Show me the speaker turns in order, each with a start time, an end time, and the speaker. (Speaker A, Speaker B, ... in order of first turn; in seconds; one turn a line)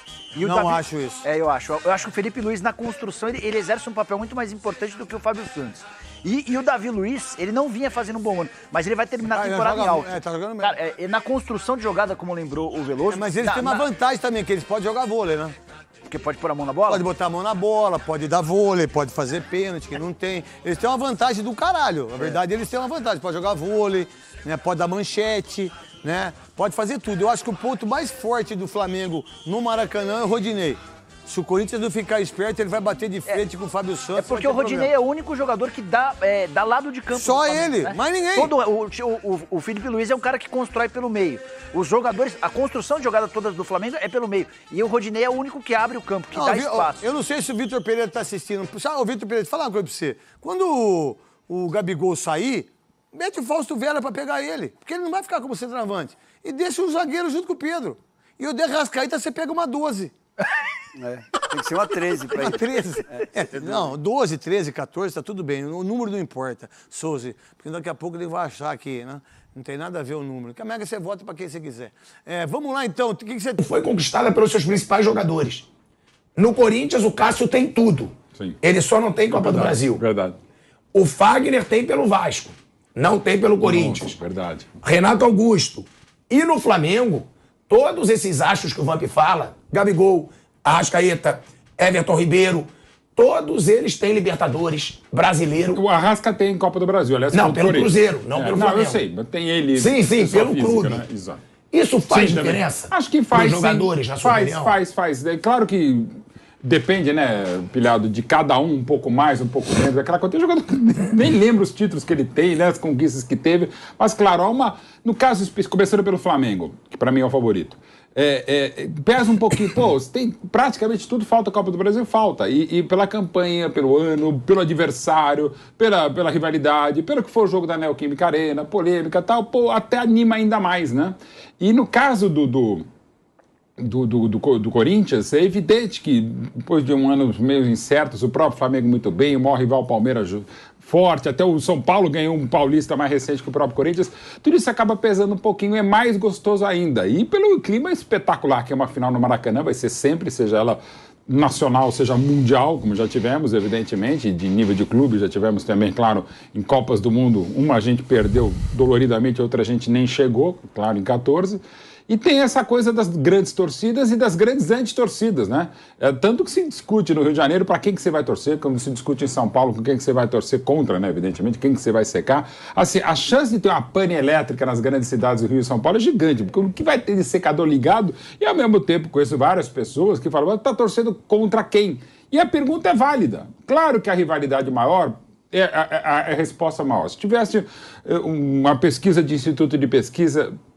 Speaker A: 0.3-13.9
Speaker B: 0.4-1.2
Speaker B: 9.3-10.8
Speaker B: 13.1-15.6
Speaker A: 16.1-17.0
Speaker B: 16.9-34.9
Speaker A: 34.1-47.1
Speaker B: 37.1-38.5
Speaker B: 46.3-60.1
Speaker C: 60.9-63.9
Speaker B: 62.3-73.6
Speaker D: 73.6-75.7
Speaker D: 76.3-80.0
Speaker E: 79.3-80.3
Speaker D: 80.9-84.2
Speaker E: 83.6-84.7
Speaker D: 84.8-95.8
Speaker E: 95.7-101.4
Speaker D: 97.3-99.0
Speaker D: 99.7-101.0
Speaker D: 101.7-104.7
Speaker E: 102.1-132.9
Speaker E: 133.8-190.6